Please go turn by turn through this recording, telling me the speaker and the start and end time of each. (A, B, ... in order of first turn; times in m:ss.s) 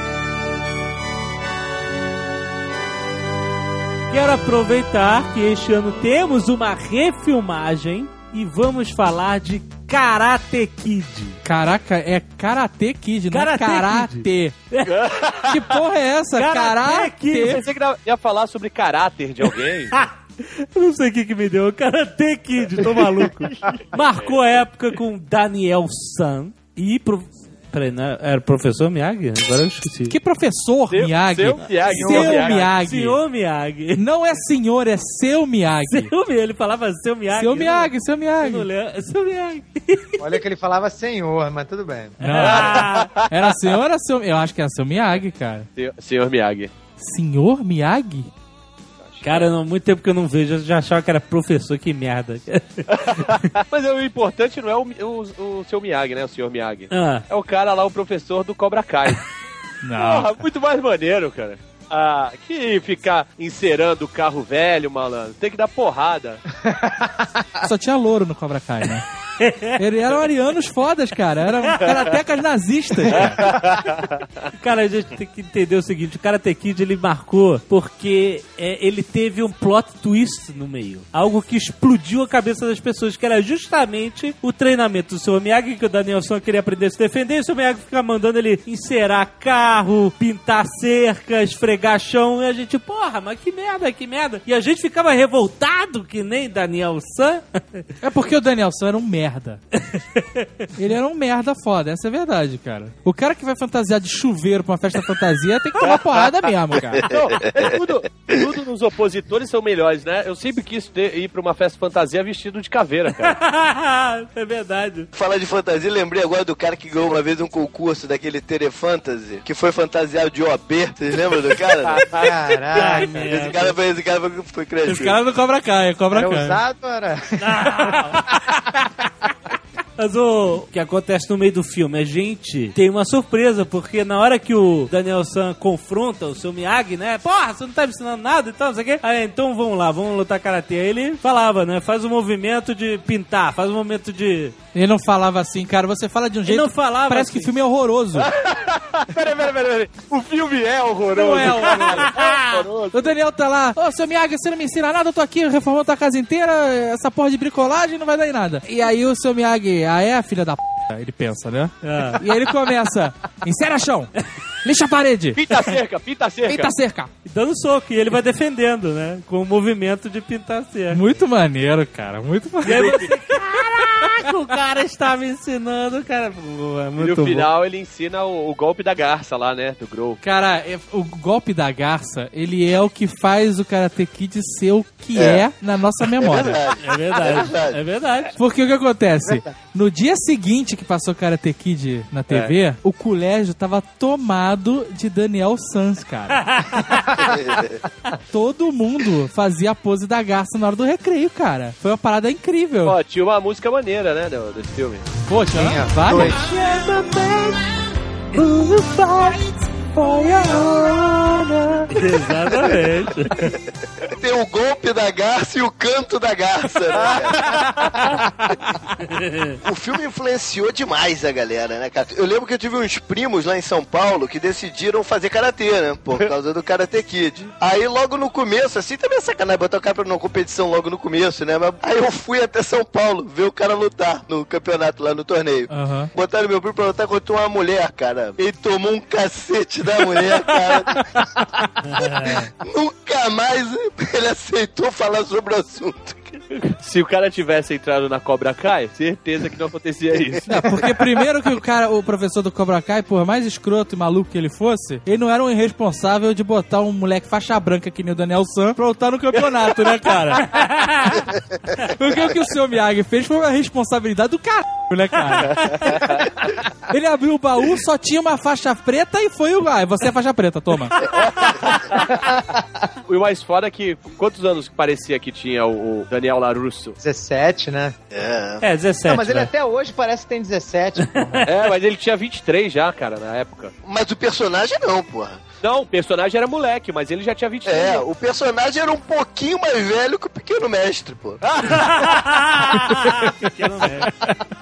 0:04.1-0:11.4 A
0:11.4-0:14.6 B
0:13.3-0:15.1 A
0:14.9-0:15.6 C
0:15.5-0:17.6 B
0:16.4-0:17.6 A
0:17.4-0:20.0 C
0:19.9-0:30.2 A
0:30.1-0:33.2 B
0:30.9-0:32.7 C
0:32.0-0:32.7 D
0:32.1-0:34.0 A
0:34.0-0:36.1 B
0:35.9-0:40.2 A
0:37.3-0:38.7 B
0:40.2-0:42.2 D
0:42.2-0:43.2 A
0:42.2-0:45.7 B
0:45.8-0:46.7 C
0:47.0-0:48.3 B
0:49.0-0:49.5 C
0:49.2-0:53.5 A
0:52.9-0:59.2 C
0:56.9-0:57.2 A
0:59.8-1:00.4 B
0:59.9-1:06.4 C
1:06.6-1:07.5 D
1:07.6-1:09.0 B
1:09.4-1:09.8 A
1:09.8-1:13.5 B
1:13.1-1:14.1 C
1:14.6-1:37.9 A
1:38.0-1:39.6 B
1:39.9-1:40.7 A
1:40.8-1:47.0 B
1:47.0-1:53.4 C
1:47.1-1:47.8 E
1:53.2-1:55.1 A
1:55.1-2:02.1 E
2:01.8-2:02.4 C
2:02.2-2:03.3 D
2:02.7-2:03.8 A
2:02.8-2:05.2 E
2:04.9-2:06.6 B
2:06.1-2:08.2 D
2:07.4-2:08.3 A
2:10.0-2:24.6 A
2:24.7-2:28.3 B
2:26.5-2:27.5 A
2:28.2-2:33.2 C
2:31.1-2:32.3 B
2:31.8-2:32.4 A
2:32.9-2:44.1 B
2:41.8-2:42.2 A
2:44.6-2:45.4 B
2:45.4-2:46.7 C
2:46.5-2:47.1 B
2:47.3-2:51.0 A
2:50.9-2:53.2 B
2:52.6-2:57.5 A
2:57.0-3:00.2 C
3:00.2-3:06.6 B
3:05.2-3:05.5 E
3:06.2-3:07.8 E
3:06.8-3:08.3 A
3:08.4-3:16.8 B
3:16.5-3:17.0 A
3:17.2-3:17.8 E
3:18.3-3:23.0 B
3:22.8-3:25.1 C
3:25.3-3:27.6 B
3:25.5-3:26.4 D
3:28.4-3:31.9 B
3:31.9-3:33.6 A
3:34.0-3:37.7 E
3:39.0-3:39.6 A
3:39.6-4:01.1 E
3:55.7-3:56.1 B
4:01.8-4:02.5 A
4:02.0-4:06.4 E
4:06.6-4:10.7 C
4:10.5-4:21.1 B
4:20.5-4:21.2 A
4:21.8-4:26.1 B
4:26.9-4:31.0 B
4:32.3-4:32.6 D
4:33.1-4:37.0 C
4:37.0-4:38.0 D
4:38.1-4:38.6 E
4:38.6-4:39.5 A
4:39.1-4:41.5 D
4:41.2-4:41.5 A
4:41.5-4:43.7 C
4:43.8-4:45.4 E
4:45.6-4:48.0 C
4:47.7-4:51.4 E
4:51.7-4:54.3 A